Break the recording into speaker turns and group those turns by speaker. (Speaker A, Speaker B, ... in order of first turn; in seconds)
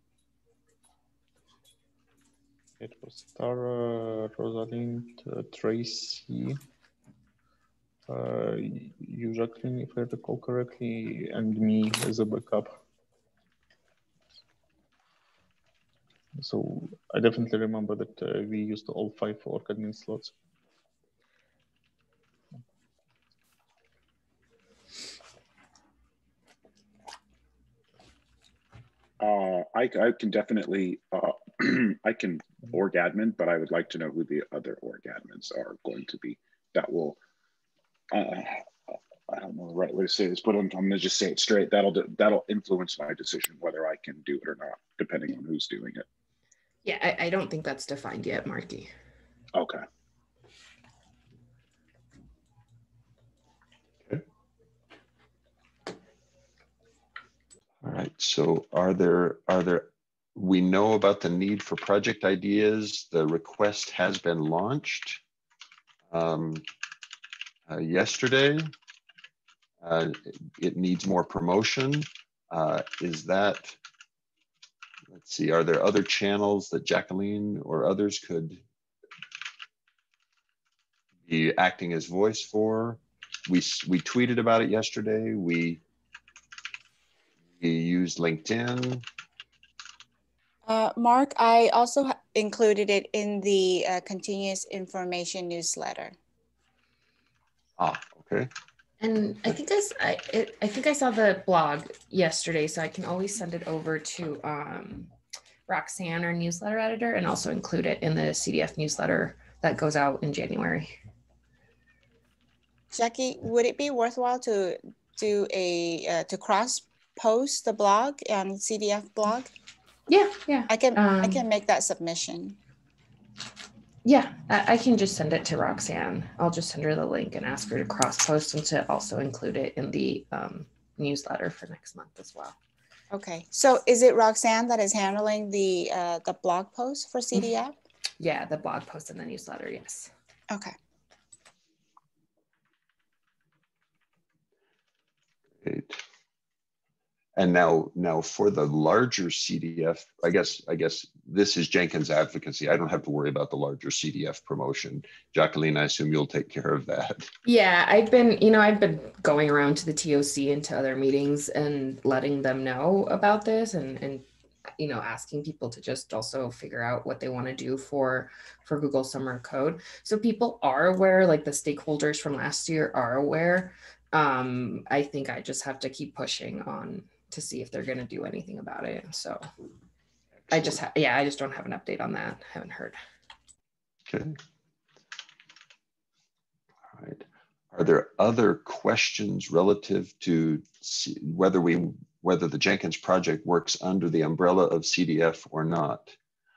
Speaker A: 2.8-6.6, 8.1-12.8, 16.4-20.3
Speaker B: 29.2-37.2, 38.1-46.0, 49.5-49.8
Speaker C: 46.8-48.9, 99.0-105.1, 105.7-110.9, 120.1-121.4, 124.0-132.6, 138.2-140.1, 157.4-164.2, 164.8-179.5, 180.5-183.0
Speaker D: 57.8-65.2, 66.1-66.6, 67.7-68.7, 69.8-73.8, 75.1-78.6, 81.3-85.8, 87.6-89.0, 97.8-98.5, 145.6-146.0, 147.4-157.3, 180.5-180.8, 184.1-184.4, 186.9-196.2
Speaker E: 90.7-96.2, 112.9-119.5, 120.7-122.6, 133.1-137.8